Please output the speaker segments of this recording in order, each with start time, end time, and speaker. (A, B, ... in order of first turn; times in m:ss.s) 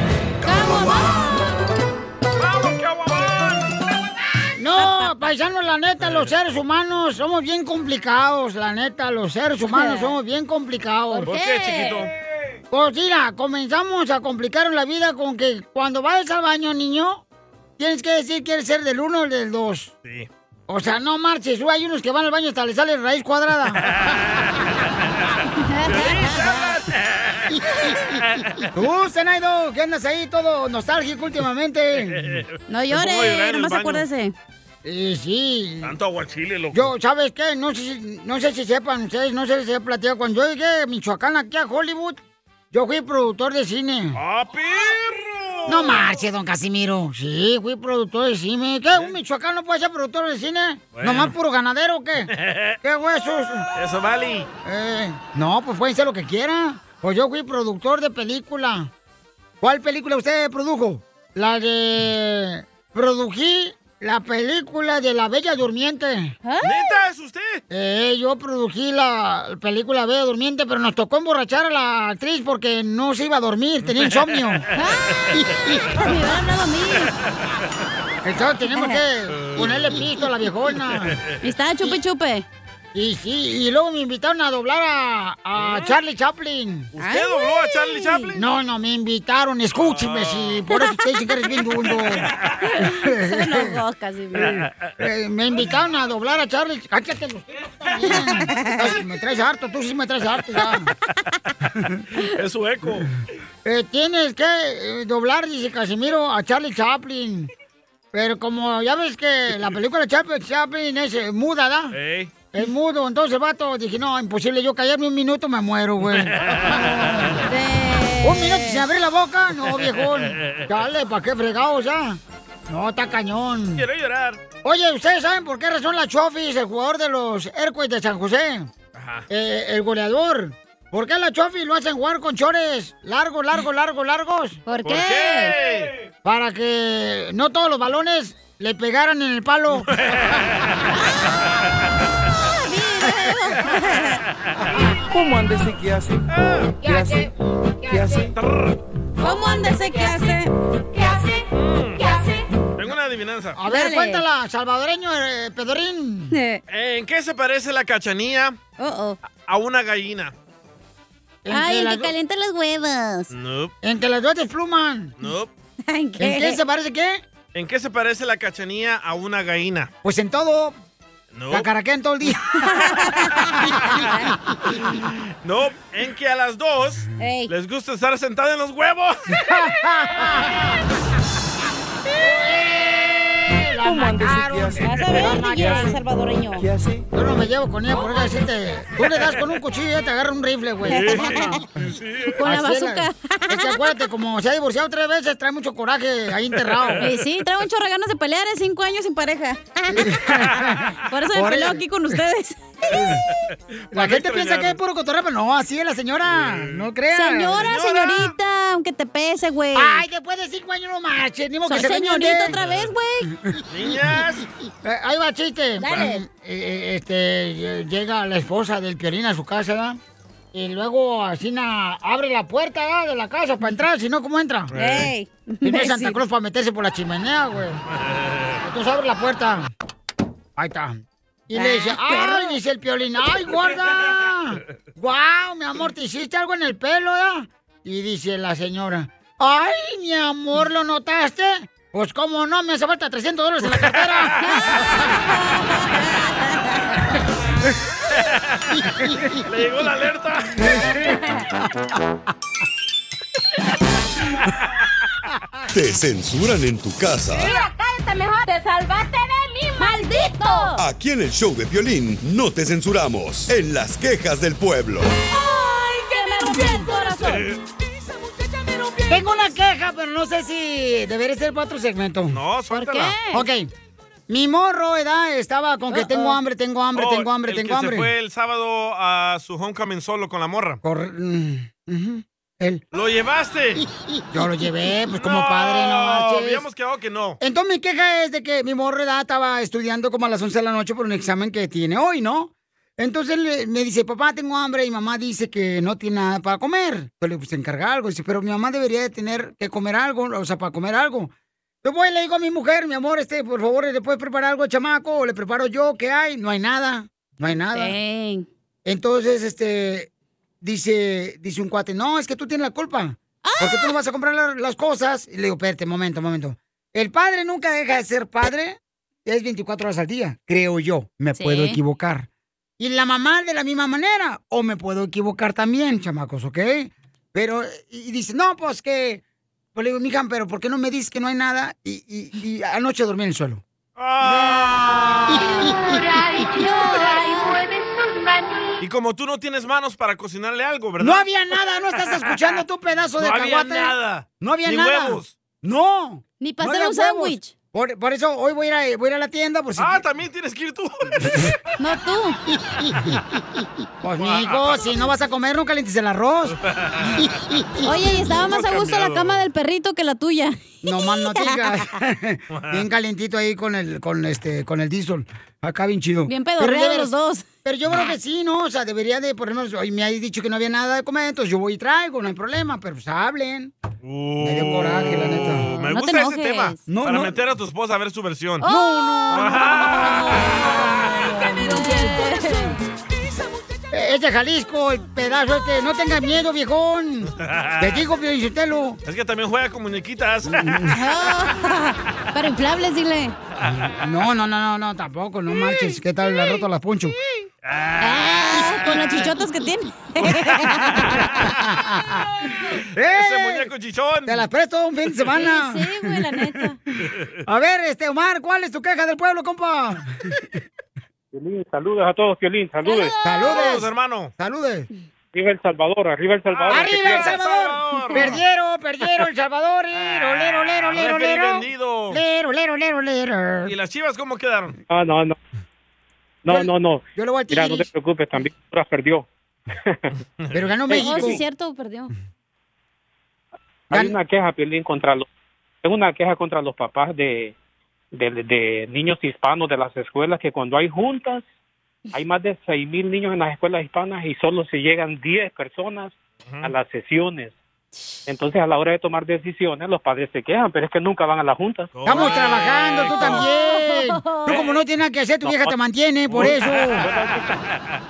0:00.4-0:01.5 A
0:02.4-0:03.7 B
0:04.6-0:11.3 C
0:04.8-0:05.1 A
0:06.0-0:06.3 B
0:09.6-0:10.2 A
0:11.2-0:12.1 B
0:11.2-0:12.0 A
0:12.7-0:17.2 C
0:17.8-0:19.9 C
0:20.0-0:20.3 B
0:20.7-0:23.8 C
0:23.8-0:24.9 B
0:25.6-0:26.8 A
0:25.8-0:28.7 B
0:28.7-0:32.4 C
0:32.0-0:34.0 B
0:32.7-0:34.3 A
0:34.8-0:36.0 C
0:35.8-0:36.9 B
0:36.7-0:42.2 C
0:42.7-0:44.2 C
0:44.1-0:46.0 B
0:45.7-0:52.3 C
0:50.9-0:51.3 B
0:52.3-0:52.8 B
0:52.8-0:53.6 C
0:53.7-0:54.5 B
0:54.6-0:58.9 C
0:59.6-1:06.3 C
1:06.4-1:07.0 A
1:06.6-1:07.6 B
1:07.7-1:14.7 C
1:13.8-1:15.8 B
1:14.7-1:17.1 A
1:17.0-1:17.5 B
1:18.2-1:21.2 C
1:18.7-1:19.0 A
1:19.3-1:20.0 B
1:20.9-1:21.4 B
1:21.4-1:22.4 A
1:22.9-1:26.9 C
1:26.9-1:28.4 B
1:27.0-1:28.3 A
1:28.3-1:32.3 C
1:29.7-1:30.6 B
1:30.7-1:31.0 A
1:32.1-1:32.5 B
1:32.6-1:34.6 A
1:33.0-1:33.8 C
1:34.4-1:40.9 C
1:34.5-1:34.9 B
1:38.0-1:39.0 A
1:41.7-1:42.0 C
1:42.4-1:43.1 B
1:43.6-1:47.5 C
1:48.1-1:52.0 C
1:51.9-1:52.3 B
1:52.5-1:56.8 C
1:56.1-1:57.4 B
1:57.3-1:58.8 A
1:58.2-2:03.8 C
1:59.6-2:00.7 B
2:03.8-2:04.4 B
2:04.6-2:08.7 C
2:08.9-2:09.3 B
2:09.3-2:14.6 C
2:14.6-2:15.5 A
2:14.8-2:15.9 B
2:16.2-2:19.9 C
2:19.9-2:20.8 B
2:20.9-2:21.4 A
2:22.4-2:24.2 A
2:25.1-2:26.3 D
2:26.3-2:26.8 B
2:26.8-2:28.3 D
2:28.3-2:28.8 B
2:29.2-2:30.5 A
2:31.5-2:32.0 B
2:32.8-2:33.6 B
2:33.6-2:36.3 C
2:33.6-2:34.2 A
2:36.3-2:36.6 A
2:36.7-2:38.6 B
2:38.8-2:39.2 A
2:39.4-2:40.3 B
2:41.4-2:42.1 C
2:41.5-2:43.3 A
2:43.3-2:43.7 B
2:43.8-2:45.1 C
2:45.2-2:45.5 B
2:45.9-2:46.6 A
2:46.2-2:47.2 C
2:47.5-2:49.9 B
2:50.0-2:50.7 C
2:51.3-2:51.7 B
2:51.5-2:52.5 C
2:52.6-2:54.3 A
2:55.4-2:59.2 B
2:57.2-2:57.5 A
2:59.3-3:00.6 C
3:02.2-3:05.9 C
3:03.8-3:06.0 D
3:04.8-3:06.6 A
3:06.5-3:07.0 D
3:07.1-3:11.6 C
3:10.8-3:11.6 A
3:10.9-3:12.4 B
3:12.4-3:14.0 A
3:12.4-3:17.0 C
3:16.7-3:17.2 B
3:17.0-3:20.2 A
3:19.9-3:21.8 C
3:21.1-3:22.6 A
3:22.9-3:23.2 C
3:23.7-3:24.8 B
3:23.9-3:27.7 C
3:26.3-3:26.9 B
3:27.1-3:30.0 A
3:27.6-3:28.3 B
3:29.7-3:32.6 C
3:31.6-3:33.3 A
3:32.5-3:32.9 B
3:33.3-3:33.6 C
3:33.7-3:34.4 B
3:34.8-3:40.0 C
3:35.8-3:36.2 A
3:40.5-3:44.7 C
3:44.7-3:45.1 B
3:44.7-3:46.2 A
3:45.6-3:47.8 C
3:47.9-3:48.6 B
3:48.6-3:49.7 C
3:50.6-4:04.4 C
3:51.5-3:52.6 A
4:04.5-4:04.7 A
4:05.3-4:06.9 A
4:08.1-4:08.8 B
4:09.4-4:10.9 B
4:15.7-4:17.5 E
4:17.4-4:20.8 A
4:20.8-4:25.1 E
4:25.3-4:27.5 A
4:27.2-4:27.6 B
4:29.1-4:33.7 C
4:32.3-4:33.2 B
4:32.7-4:33.4 A
4:34.3-4:38.1 C
4:35.9-4:36.4 A
4:36.9-4:40.8 B
4:40.8-4:42.8 C
4:42.9-4:43.8 B
4:44.3-4:46.6 C
4:45.1-4:47.4 B
4:47.4-5:01.3 C
5:01.8-5:08.0 C
5:07.7-5:08.5 A
5:08.8-5:10.1 C
5:10.6-5:29.2 C
5:13.4-5:13.9 A
5:21.4-5:21.8 A
5:29.7-5:33.6 C
5:34.0-5:35.4 B
5:35.4-5:35.7 A
5:36.4-5:37.6 A
5:38.8-5:41.3 B
5:41.0-5:50.0 C
5:42.1-5:42.5 B
5:43.2-5:45.3 B
5:46.4-5:47.5 A
5:49.8-5:51.3 B
5:51.8-5:52.4 A
5:54.0-5:56.6 C
5:54.2-5:54.8 B
5:56.5-5:57.4 B
5:57.8-6:01.7 A
5:58.1-5:59.4 B
6:00.8-6:07.1 C
6:02.5-6:02.8 B
6:06.2-6:07.5 A
6:07.6-6:13.7 C
6:14.0-6:18.6 B
6:14.4-6:15.7 C
6:15.7-6:16.8 A
6:16.9-6:17.4 C
6:18.6-6:20.7 C
6:18.6-6:22.8 A
6:19.3-6:21.1 B
6:21.6-6:22.2 C
6:23.9-6:29.0 C
6:27.3-6:28.0 B
6:29.0-6:30.9 B
6:30.5-6:31.0 C
6:30.9-6:33.4 A
6:33.7-6:37.1 C
6:37.6-6:38.2 B
6:38.0-6:41.0 A
6:38.8-6:39.3 C
6:40.3-6:42.3 C
6:41.1-6:41.6 B
6:42.9-6:43.7 C
6:43.0-6:44.5 B
6:44.2-6:46.6 C
6:45.3-6:46.8 A
6:47.4-6:50.3 C
6:51.3-6:53.1 F
6:52.8-6:53.5 A
6:53.2-6:54.9 C
6:53.4-6:54.3 B
6:55.3-6:57.4 F
6:56.5-6:58.4 B
6:56.7-7:03.7 C
6:59.9-7:02.2 B
7:03.6-7:04.8 B
7:04.9-7:05.4 F
7:06.4-7:09.3 F
7:06.5-7:07.9 C
7:10.4-7:11.0 B
7:10.5-7:11.4 C
7:10.9-7:12.1 A
7:13.9-7:14.2 C
7:13.9-7:15.3 F
7:15.8-7:17.5 F
7:18.1-7:21.4 F
7:22.1-7:27.5 F
7:26.4-7:26.7 B
7:28.3-7:31.9 F
7:31.9-7:33.4 B
7:32.0-7:37.0 C
7:33.1-7:34.7 A
7:35.4-7:35.7 F
7:36.3-7:37.4 F
7:36.3-7:38.0 B